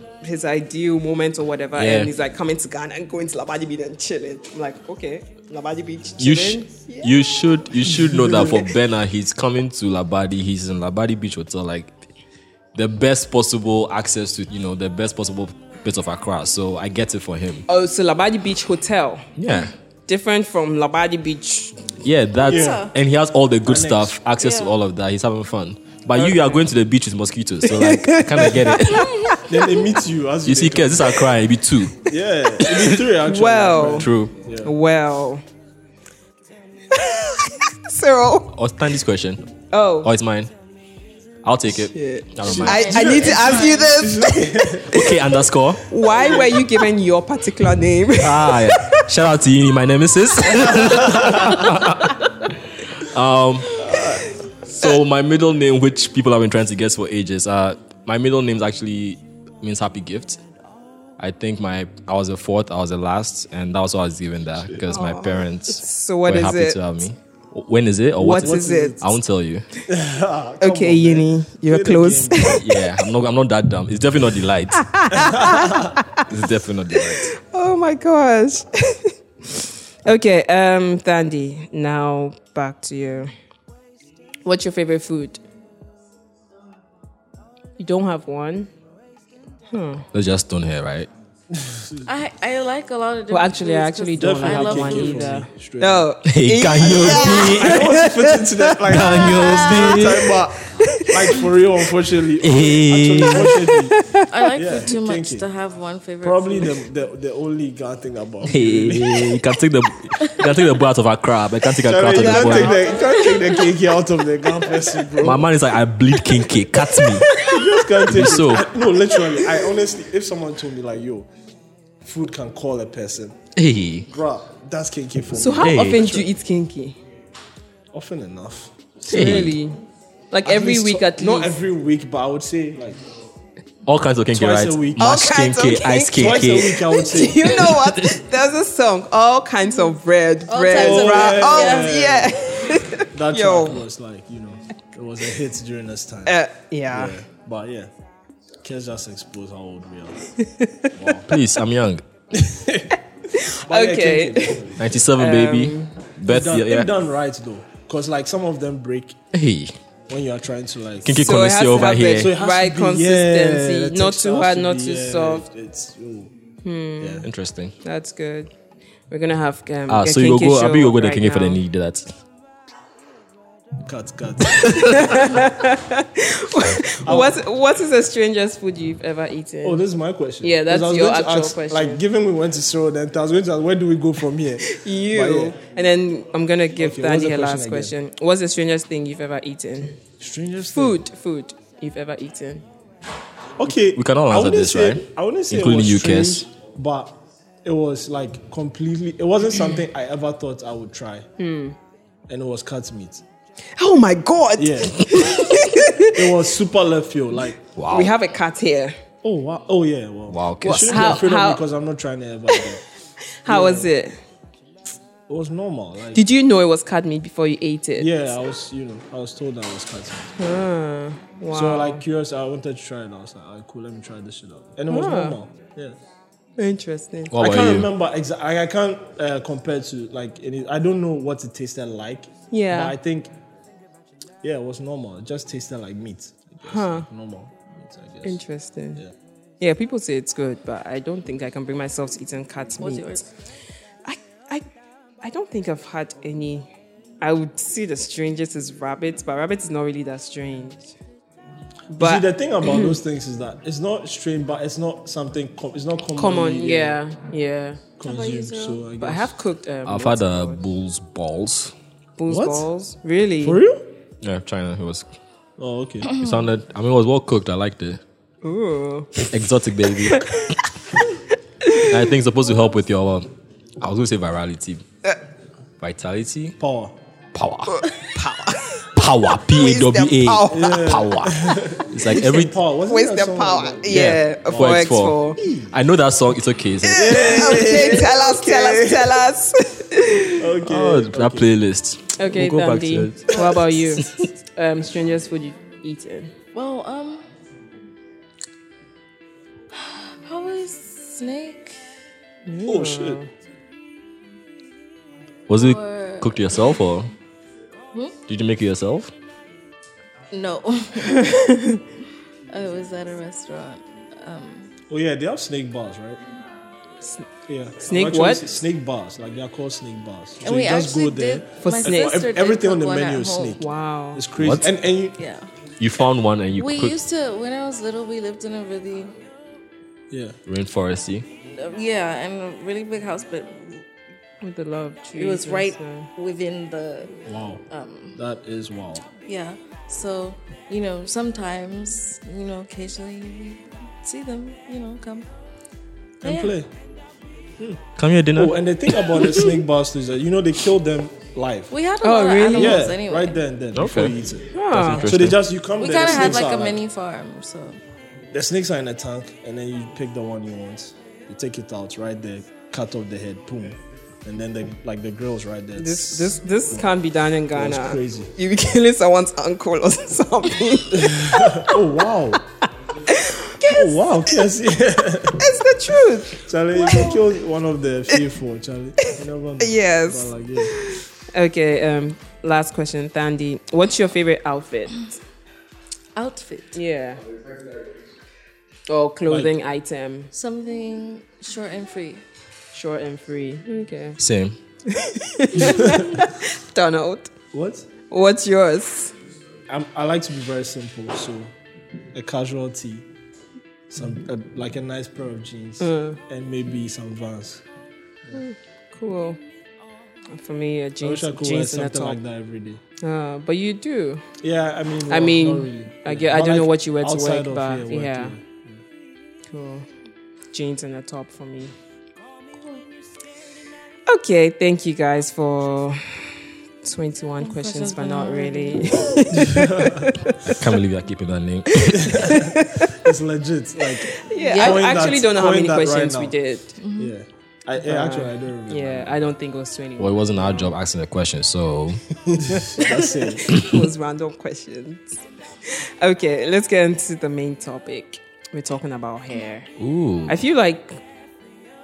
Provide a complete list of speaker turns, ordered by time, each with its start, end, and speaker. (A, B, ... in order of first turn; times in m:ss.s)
0:00.2-0:07.1 A
0:01.7-0:02.1 B
0:06.2-0:11.9 B
0:08.0-0:08.5 C
0:08.3-0:08.6 A
0:12.7-0:17.6 B
0:17.7-0:19.3 A
0:19.4-0:19.7 B
0:20.1-0:21.8 A
0:22.0-0:29.1 B
0:22.4-0:22.9 D
0:22.4-0:22.9 C
0:23.6-0:24.2 C
0:24.4-0:24.7 D
0:26.2-0:26.6 A
0:27.6-0:29.5 A
0:29.4-0:31.3 C
0:30.4-0:32.0 B
0:32.0-0:34.7 C
0:32.6-0:34.1 A
0:34.0-0:34.3 B
0:34.6-0:35.4 A
0:36.9-0:38.5 A
0:38.5-0:39.5 B
0:39.7-0:40.1 A
0:40.0-0:40.5 B
0:41.4-0:43.2 B
0:41.8-0:45.2 A
0:42.4-0:45.0 C
0:42.6-0:44.0 D
0:44.9-0:45.8 B
0:45.9-0:49.1 A
0:46.0-0:46.6 C
0:48.2-0:52.2 B
0:50.4-0:51.9 A
0:51.1-0:51.4 C
0:53.0-0:53.8 B
0:53.8-0:54.4 C
0:54.7-1:00.4 B
1:01.2-1:09.6 B
1:04.9-1:06.8 A
1:08.2-1:09.0 A
1:08.3-1:09.1 C
1:09.9-1:12.6 C
1:10.6-1:12.7 A
1:12.5-1:15.2 B
1:14.8-1:16.2 A
1:15.1-1:15.9 C
1:16.2-1:17.3 B
1:16.9-1:23.3 A
1:24.4-1:25.4 A
1:27.8-1:28.7 A
1:29.7-1:30.0 A
1:30.1-1:31.1 B
1:31.5-1:32.1 C
1:32.0-1:35.4 D
1:33.3-1:39.9 A
1:34.2-1:36.1 C
1:36.2-1:37.9 B
1:36.8-1:44.0 C
1:38.9-1:40.4 B
1:40.6-1:41.4 A
1:42.4-1:43.6 B
1:43.9-1:44.3 A
1:44.3-1:46.7 D
1:44.5-1:45.4 C
1:46.2-1:49.4 C
1:48.4-1:52.7 B
1:51.8-1:55.5 C
1:52.2-1:53.3 A
1:52.8-1:53.6 D
1:55.2-1:57.3 B
1:57.4-2:01.3 C
1:58.0-1:58.7 B
2:02.0-2:03.4 C
2:03.6-2:04.1 B
2:04.0-2:06.3 C
2:05.3-2:07.0 A
2:05.6-2:06.1 B
2:07.9-2:09.5 C
2:09.1-2:09.8 A
2:09.1-2:09.6 B
2:10.3-2:11.6 A
2:10.4-2:13.0 C
2:13.8-2:16.8 B
2:14.3-2:15.1 C
2:15.0-2:23.8 A
2:16.1-2:17.7 C
2:17.6-2:18.2 B
2:19.6-2:19.9 D
2:20.5-2:22.0 D
2:20.6-2:26.4 C
2:26.2-2:27.2 A
2:26.9-2:27.9 C
2:28.6-2:30.2 C
2:30.4-2:30.9 A
2:31.0-2:31.3 C
2:31.3-2:32.0 B
2:32.3-2:35.1 C
2:33.3-2:34.6 A
2:34.8-2:36.9 B
2:35.2-2:35.9 A
2:36.2-2:39.2 C
2:39.3-2:39.7 B
2:40.1-2:46.3 C
2:41.0-2:42.3 B
2:41.2-2:45.4 A
2:46.6-2:47.3 A
2:47.0-2:47.3 C
2:47.2-2:47.7 B
2:47.8-2:48.5 A
2:49.1-2:51.6 A
2:49.9-2:52.1 B
2:53.8-2:55.2 C
2:54.6-2:59.8 A
2:57.0-2:57.4 C
2:59.6-3:05.6 C
3:00.4-3:02.0 A
3:04.6-3:10.0 A
3:06.8-3:07.9 C
3:10.2-3:11.0 C
3:10.7-3:12.6 A
3:13.6-3:21.3 C
3:13.9-3:16.4 B
3:21.4-3:21.8 A
3:22.3-3:23.2 C
3:23.7-3:26.3 A
3:24.6-3:25.2 C
3:26.0-3:27.6 C
3:27.8-3:28.1 B
3:27.9-3:29.0 A
3:29.2-3:32.8 C
3:30.3-3:31.2 B
3:30.6-3:31.6 A
3:33.4-3:34.1 A
3:33.5-3:33.9 C
3:35.3-3:36.2 C
3:36.1-3:38.3 A
3:38.0-3:40.5 C
3:40.4-3:42.0 A
3:41.5-3:46.0 C
3:44.9-3:45.4 A
3:46.6-3:47.3 A
3:47.3-3:47.9 B
3:47.4-3:53.3 C
3:52.5-3:53.0 A
3:54.4-3:58.4 C
3:56.6-3:57.1 A
3:58.2-3:59.0 A
3:59.6-4:03.2 A
4:02.8-4:03.2 D
4:04.0-4:04.6 A
4:05.2-4:06.7 A
4:07.2-4:10.9 A
4:11.9-4:13.0 A
4:12.0-4:17.0 C
4:16.2-4:17.8 A
4:18.0-4:19.4 C
4:18.0-4:18.8 D
4:19.0-4:20.6 A
4:19.8-4:21.7 B
4:22.2-4:23.6 A
4:22.3-4:22.6 C
4:23.4-4:23.8 C
4:24.2-4:25.1 B
4:25.6-4:26.1 C
4:26.0-4:26.5 D
4:26.1-4:28.0 B
4:28.4-4:29.2 A
4:29.3-4:30.2 B
4:30.0-4:30.5 A
4:31.6-4:31.9 A
4:31.8-4:33.3 B
4:33.8-4:34.8 B
4:35.8-4:36.6 B
4:36.6-4:37.0 C
4:37.3-4:37.8 B
4:37.7-4:38.9 A
4:38.9-4:42.6 B
4:39.5-4:40.9 A
4:40.5-4:45.8 C
4:42.9-4:45.4 A
4:43.9-4:45.2 B
4:45.7-4:47.6 B
4:46.8-4:50.4 A
4:46.9-4:49.2 C
4:50.4-4:51.5 C
4:50.6-4:54.1 B
4:52.2-4:56.3 A
4:53.3-4:53.9 D
4:56.5-4:57.2 D
4:59.8-5:01.8 D
5:02.4-5:03.3 A
5:02.6-5:03.2 C
5:05.5-5:07.1 B
5:05.6-5:06.6 D
5:08.3-5:09.1 B
5:10.3-5:11.4 D
5:11.0-5:11.8 A
5:12.5-5:14.7 D
5:14.9-5:16.2 C
5:17.0-5:17.2 A
5:17.5-5:25.2 C
5:17.8-5:18.4 A
5:20.4-5:23.6 D
5:21.6-5:22.2 A
5:23.6-5:24.2 A
5:24.4-5:24.7 B
5:25.2-5:25.5 D
5:25.8-5:27.0 B
5:26.6-5:29.1 D
5:30.1-5:30.4 C
5:30.5-5:31.2 B
5:31.5-5:33.8 D
5:34.4-5:36.1 A
5:35.1-5:38.2 D
5:37.2-5:37.6 C
5:38.1-5:39.1 C
5:39.2-5:45.3 D
5:46.2-5:46.7 C
5:46.2-5:46.5 D
5:48.0-5:49.4 B
5:48.3-5:51.7 C
5:51.7-5:53.4 D
5:52.0-5:52.9 A
5:52.4-5:56.8 C
5:53.7-5:54.2 B
5:54.5-5:55.1 A
5:54.7-5:55.4 B
5:55.8-5:57.8 D
5:58.3-6:06.9 C
6:05.8-6:11.8 A
6:07.5-6:08.3 C
6:10.9-6:12.4 C
6:13.0-6:14.4 A
6:13.6-6:15.5 C
6:15.4-6:17.1 A
6:16.3-6:20.7 C
6:16.8-6:17.2 D
6:19.0-6:25.1 A
6:26.2-6:26.7 D
6:26.7-6:27.2 A
6:28.9-6:30.3 A
6:29.2-6:29.5 C
6:30.3-6:32.2 D
6:32.7-6:34.2 A
6:34.2-6:34.6 B
6:34.9-6:37.3 A
6:35.6-6:36.1 C
6:37.5-6:37.9 C
6:38.1-6:39.1 A
6:39.7-6:41.5 C
6:42.1-6:43.0 C
6:43.9-6:47.6 C
6:45.8-6:46.2 A
6:48.3-6:49.4 A
6:50.3-6:52.2 A
6:51.0-6:52.8 C
6:53.0-6:54.2 A
6:54.4-6:58.8 C
6:55.1-6:58.4 A
6:59.5-6:59.9 A
7:00.5-7:01.7 A
7:04.1-7:06.3 A
7:06.8-7:10.6 A
7:07.4-7:09.4 D
7:09.3-7:10.3 C
7:10.4-7:12.1 B
7:11.8-7:13.1 A
7:11.9-7:16.4 C
7:13.8-7:16.8 A
7:14.4-7:14.8 D
7:16.8-7:17.1 D
7:17.0-7:19.3 C
7:17.8-7:20.7 A
7:20.0-7:22.0 B
7:22.3-7:23.5 C
7:22.8-7:29.7 A
7:23.5-7:23.8 B
7:29.8-7:30.4 B
7:30.3-7:31.0 A